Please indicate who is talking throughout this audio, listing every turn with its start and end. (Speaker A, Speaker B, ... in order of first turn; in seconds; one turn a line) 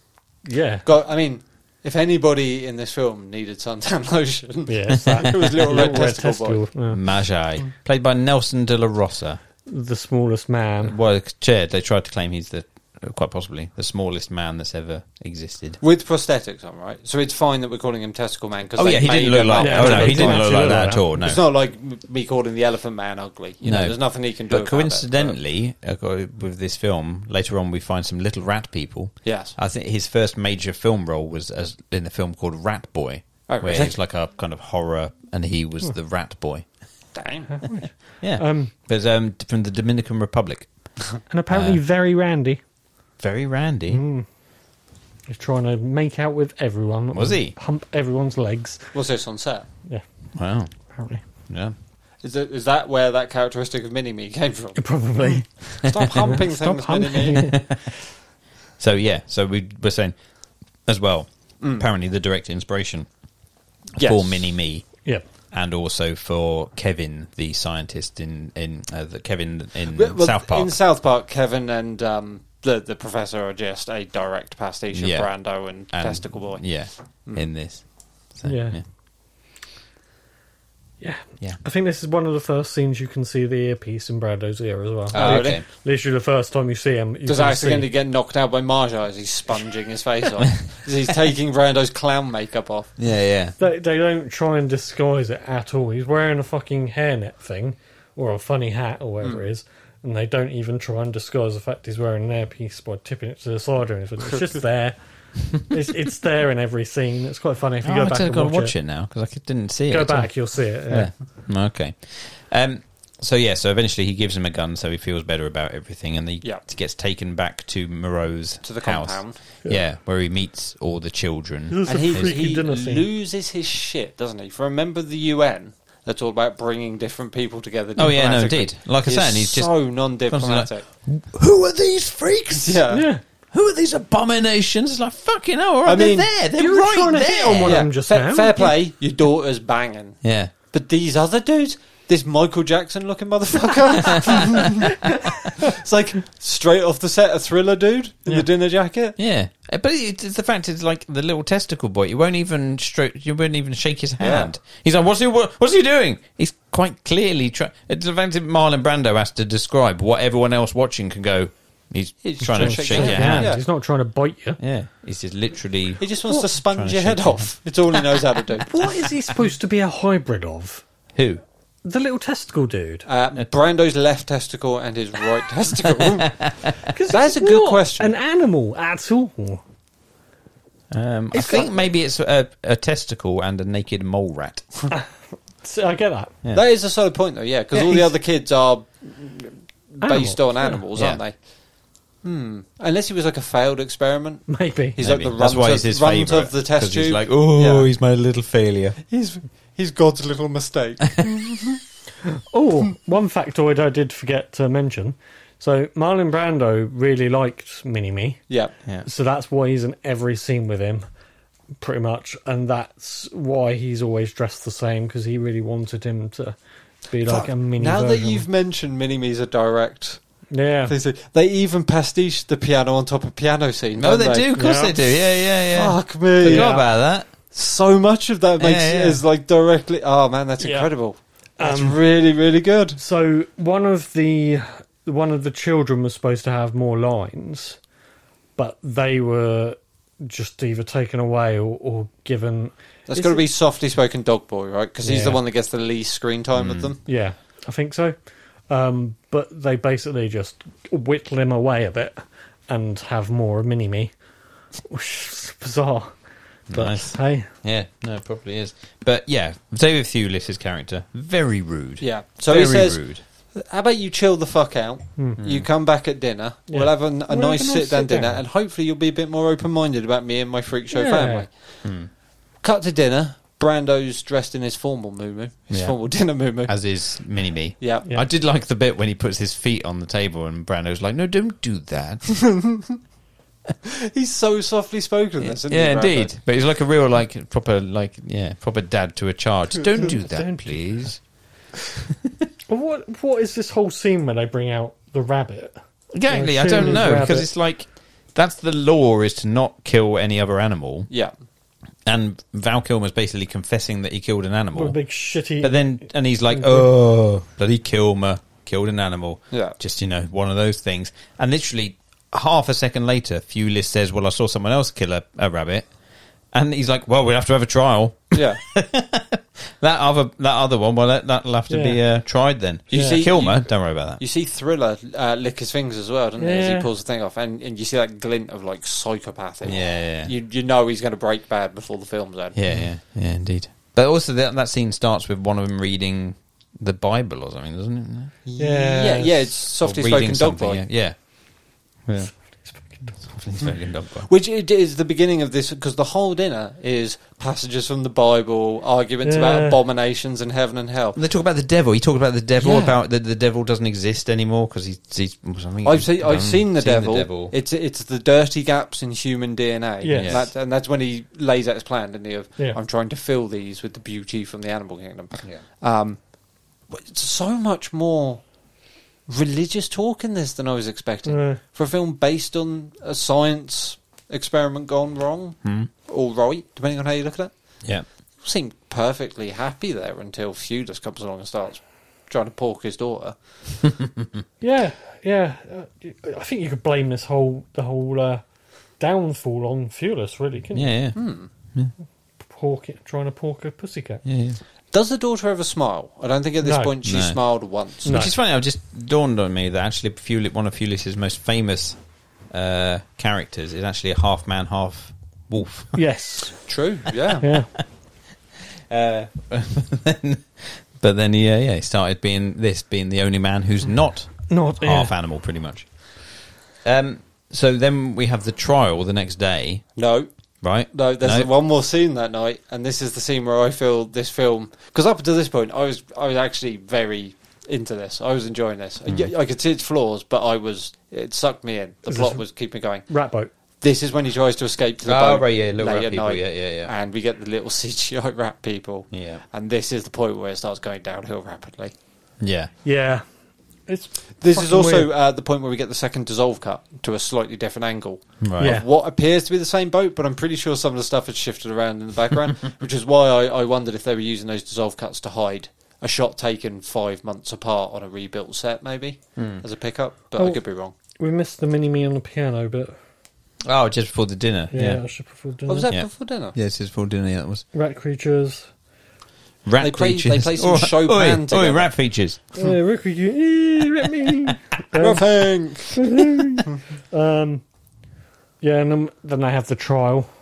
Speaker A: 0.5-0.9
Speaker B: 0.8-6.6
Speaker A: 4.7-7.0
Speaker C: 6.9-9.4
Speaker A: 9.7-11.0
Speaker C: 10.8-15.8
Speaker B: 15.8-25.4
Speaker C: 18.8-21.4
Speaker A: 19.6-21.1
Speaker C: 23.6-36.7
Speaker B: 29.2-29.6
Speaker B: 33.5-34.0
Speaker B: 37.1-37.5
Speaker A: 37.5-38.7
Speaker C: 38.2-40.7
Speaker A: 41.3-42.6
Speaker C: 41.5-41.8
Speaker C: 43.2-44.0
Speaker A: 43.9-44.3
Speaker A: 45.3-48.9
Speaker C: 47.1-47.5
Speaker B: 48.9-49.7
Speaker C: 50.4-50.7
Speaker A: 50.9-51.2
Speaker C: 51.5-51.7
Speaker B: 52.2-54.8
Speaker A: 54.8-57.8
Speaker B: 55.8-57.5
Speaker C: 57.4-57.8
Speaker C: 58.8-60.2
Speaker C: 60.9-63.1
Speaker B: 61.6-61.9
Speaker B: 64.0-64.5
Speaker C: 64.0-65.0
Speaker C: 65.5-70.8
Speaker B: 69.9-76.7
Speaker C: 74.9-78.8
Speaker A: 78.5-78.8
Speaker A: 81.0-87.9
Speaker B: 85.1-85.6
Speaker C: 85.1-85.7
Speaker B: 87.3-92.9
Speaker C: 93.0-93.5
Speaker A: 93.6-108.8
Speaker C: 107.8-122.3
Speaker A: 109.9-111.1
Speaker B: 118.6-119.4
Speaker A: 121.7-123.1
Speaker B: 121.8-130.8
Speaker C: 128.0-132.8
Speaker B: 132.6-133.1
Speaker A: 132.9-133.2
Speaker C: 133.5-137.8
Speaker B: 135.8-136.3
Speaker A: 136.6-138.8
Speaker B: 137.6-140.2
Speaker C: 140.2-140.5
Speaker B: 140.7-149.2
Speaker C: 149.2-163.6
Speaker B: 154.2-154.5
Speaker B: 162.2-163.6
Speaker A: 162.5-164.6
Speaker C: 164.6-167.5
Speaker B: 166.0-168.7
Speaker A: 168.7-170.8
Speaker C: 171.2-171.4
Speaker A: 171.8-173.1
Speaker B: 173.1-176.4
Speaker C: 176.3-176.7
Speaker A: 176.9-179.6
Speaker B: 177.1-178.1
Speaker C: 180.9-184.7
Speaker A: 185.6-186.3
Speaker B: 186.5-191.4
Speaker A: 187.7-188.1
Speaker A: 190.0-190.8
Speaker C: 190.9-191.2
Speaker B: 192.2-197.9
Speaker A: 194.5-195.0
Speaker C: 195.0-199.0
Speaker B: 199.1-201.8
Speaker A: 202.4-208.5
Speaker A: 209.0-211.0
Speaker A: 211.8-216.6
Speaker A: 217.1-218.4
Speaker B: 217.2-220.2
Speaker A: 220.5-220.9
Speaker B: 220.9-224.5
Speaker C: 224.0-227.3
Speaker A: 224.6-225.1
Speaker B: 225.7-226.8
Speaker A: 226.4-226.8
Speaker B: 227.5-233.0
Speaker C: 228.6-229.2
Speaker A: 230.6-230.9
Speaker A: 231.6-232.0
Speaker A: 233.0-237.8
Speaker A: 238.6-243.4
Speaker B: 243.1-247.0
Speaker A: 245.0-245.4
Speaker C: 246.6-246.9
Speaker A: 247.1-248.2
Speaker A: 248.7-254.1
Speaker A: 254.9-256.1
Speaker C: 256.7-263.2
Speaker A: 256.7-257.5
Speaker B: 262.0-263.0
Speaker B: 263.6-271.5
Speaker C: 265.4-265.7
Speaker A: 266.7-268.4
Speaker A: 270.9-271.5
Speaker C: 271.8-272.1
Speaker B: 272.6-276.7
Speaker C: 275.7-276.0
Speaker C: 276.7-282.3
Speaker B: 277.8-278.1
Speaker B: 282.4-283.0
Speaker B: 283.9-286.3
Speaker C: 285.4-291.2
Speaker A: 290.0-291.1
Speaker A: 292.7-295.8
Speaker C: 296.1-301.1
Speaker A: 296.3-297.5
Speaker C: 302.1-305.0
Speaker A: 304.8-305.9
Speaker C: 305.6-315.9
Speaker A: 306.5-306.9
Speaker B: 309.5-309.8
Speaker C: 316.5-324.2
Speaker B: 318.3-318.6
Speaker A: 321.7-322.0
Speaker B: 322.9-332.6
Speaker A: 322.9-323.2
Speaker A: 326.4-326.9
Speaker C: 329.6-330.3
Speaker C: 332.6-338.3
Speaker B: 338.4-340.8
Speaker A: 338.6-339.5
Speaker C: 339.7-341.2
Speaker C: 342.1-342.3
Speaker A: 342.7-343.2
Speaker C: 343.3-344.3
Speaker B: 344.3-351.2
Speaker A: 349.2-349.8
Speaker C: 351.2-357.5
Speaker B: 352.6-352.9
Speaker B: 355.8-366.2
Speaker A: 360.0-360.5
Speaker C: 360.1-360.5
Speaker B: 366.9-368.4
Speaker B: 369.3-377.5
Speaker A: 371.3-371.6
Speaker C: 375.6-375.9
Speaker B: 378.4-383.4
Speaker A: 384.6-388.4
Speaker A: 389.0-390.9
Speaker C: 390.7-391.2
Speaker B: 391.1-391.5
Speaker A: 392.5-394.2
Speaker C: 394.2-394.6
Speaker B: 394.9-398.2
Speaker A: 396.6-396.9
Speaker C: 397.0-397.4
Speaker C: 398.0-402.0
Speaker A: 398.1-398.3
Speaker C: 402.5-406.0
Speaker A: 405.9-406.7
Speaker B: 406.7-407.5
Speaker A: 407.4-407.7
Speaker C: 408.9-415.9
Speaker A: 414.5-415.1
Speaker C: 416.8-419.9
Speaker B: 420.0-420.3
Speaker C: 420.6-421.5
Speaker B: 420.9-433.1
Speaker A: 432.1-432.4
Speaker A: 433.1-433.5
Speaker B: 433.8-441.9
Speaker C: 435.1-436.9
Speaker C: 439.1-439.4
Speaker C: 442.4-442.7
Speaker A: 442.8-443.2
Speaker A: 443.9-445.1
Speaker B: 444.4-460.9
Speaker C: 448.4-448.8
Speaker A: 448.6-448.9
Speaker C: 459.4-459.6
Speaker A: 461.2-463.0
Speaker C: 463.6-465.0
Speaker A: 464.7-465.9
Speaker B: 465.7-466.6
Speaker C: 465.9-467.6
Speaker A: 467.7-468.7
Speaker C: 469.6-472.4
Speaker B: 469.8-471.9
Speaker A: 472.6-477.6
Speaker B: 475.0-476.1
Speaker A: 478.6-480.3